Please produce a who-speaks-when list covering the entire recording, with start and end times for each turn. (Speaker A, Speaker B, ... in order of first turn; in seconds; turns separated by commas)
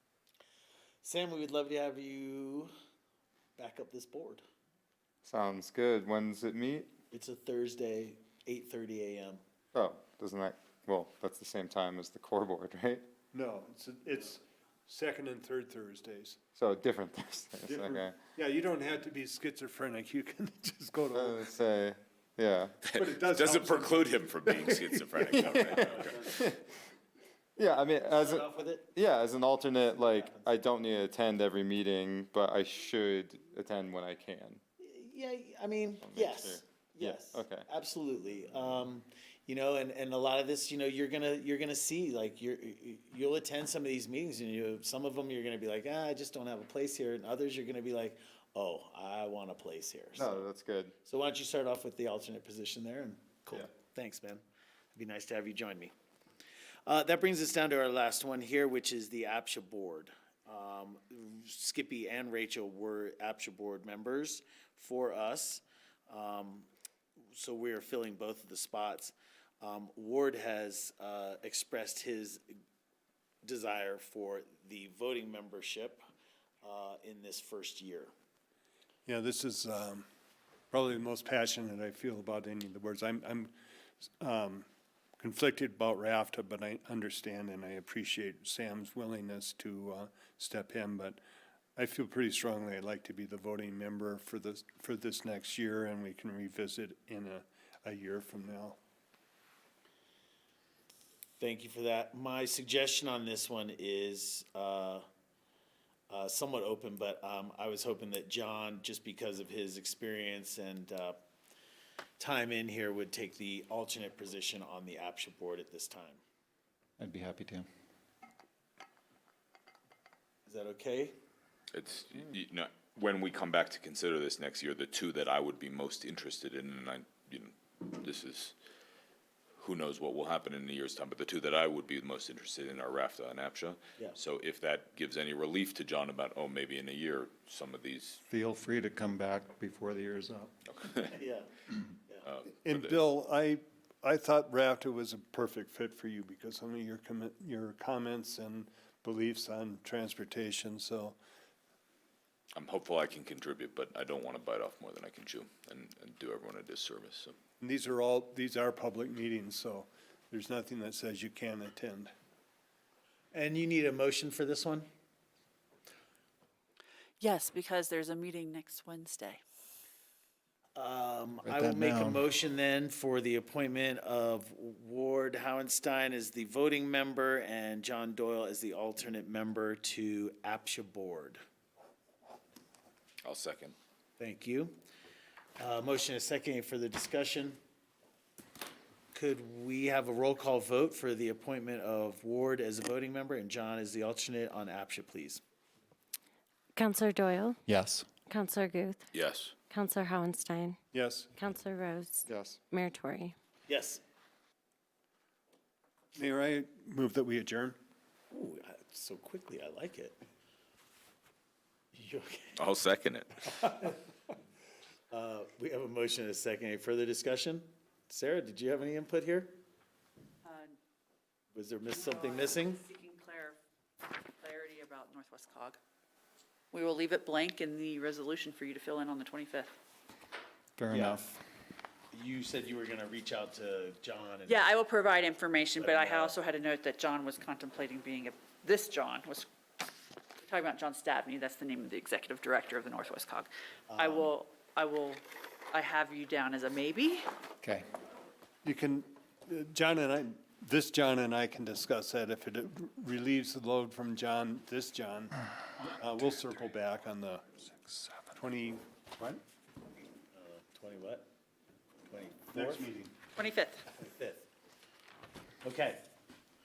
Speaker A: 1.0-2.7, Speaker A: 3.6-4.4, Speaker B: 5.2-6.9, Speaker A: 7.1-9.4, Speaker B: 9.7-13.1, Speaker C: 13.3-16.4, Speaker B: 16.6-18.1, Speaker C: 17.6-21.5, Speaker B: 21.1-22.8, Speaker D: 22.8-26.3, Speaker C: 23.0-25.6, Speaker A: 25.4-26.4, Speaker B: 26.0-26.6, Speaker B: 27.6-34.6, Speaker A: 28.0-28.9, Speaker A: 29.9-30.6, Speaker A: 34.8-50.4, Speaker B: 36.0-37.6, Speaker B: 50.1-50.9, Speaker A: 51.0-54.4, Speaker A: 54.9-55.9, Speaker A: 56.9-66.7, Speaker A: 67.3-72.4, Speaker A: 73.4-76.0, Speaker A: 76.6-78.1, Speaker C: 79.0-80.0, Speaker C: 80.7-83.5, Speaker C: 84.2-84.7, Speaker C: 85.2-91.2, Speaker C: 91.8-98.8, Speaker A: 101.4-105.0, Speaker A: 106.1-111.2, Speaker A: 112.2-116.2, Speaker E: 117.0-117.7, Speaker A: 120.5-121.1, Speaker D: 121.7-128.5, Speaker D: 129.6-138.2, Speaker E: 138.3-140.5, Speaker D: 140.7-141.1, Speaker A: 141.1-141.5, Speaker D: 142.2-143.0, Speaker C: 142.6-151.2, Speaker D: 152.5-157.4, Speaker C: 157.6-162.1, Speaker A: 163.3-164.9, Speaker F: 167.2-169.4, Speaker A: 170.7-181.4, Speaker E: 171.4-172.3, Speaker D: 183.2-183.7, Speaker A: 184.2-184.7, Speaker A: 185.6-187.6, Speaker A: 189.1-195.4, Speaker G: 196.7-197.6, Speaker E: 197.7-198.1, Speaker G: 198.2-199.1, Speaker D: 199.1-199.5, Speaker G: 199.7-200.8, Speaker C: 200.9-201.3, Speaker G: 201.3-203.3, Speaker B: 202.2-202.6, Speaker A: 203.7-204.0, Speaker C: 206.2-207.8, Speaker A: 208.3-210.2, Speaker A: 211.9-212.6, Speaker D: 212.6-213.6, Speaker A: 213.6-213.9, Speaker A: 215.1-219.6, Speaker F: 220.4-220.8, Speaker A: 221.5-222.8, Speaker F: 221.9-223.6, Speaker F: 224.4-225.8, Speaker F: 226.7-229.7, Speaker E: 230.8-231.4, Speaker A: 230.9-231.3, Speaker A: 232.1-234.6, Speaker F: 234.4-239.5, Speaker A: 235.8-236.3, Speaker F: 240.4-247.3, Speaker A: 243.9-244.3, Speaker E: 247.6-247.9, Speaker C: 248.6-259.4, Speaker A: 260.3-261.2, Speaker A: 262.1-262.8, Speaker C: 262.5-263.1, Speaker F: 263.3-263.9, Speaker A: 264.0-264.4, Speaker A: 265.6-266.0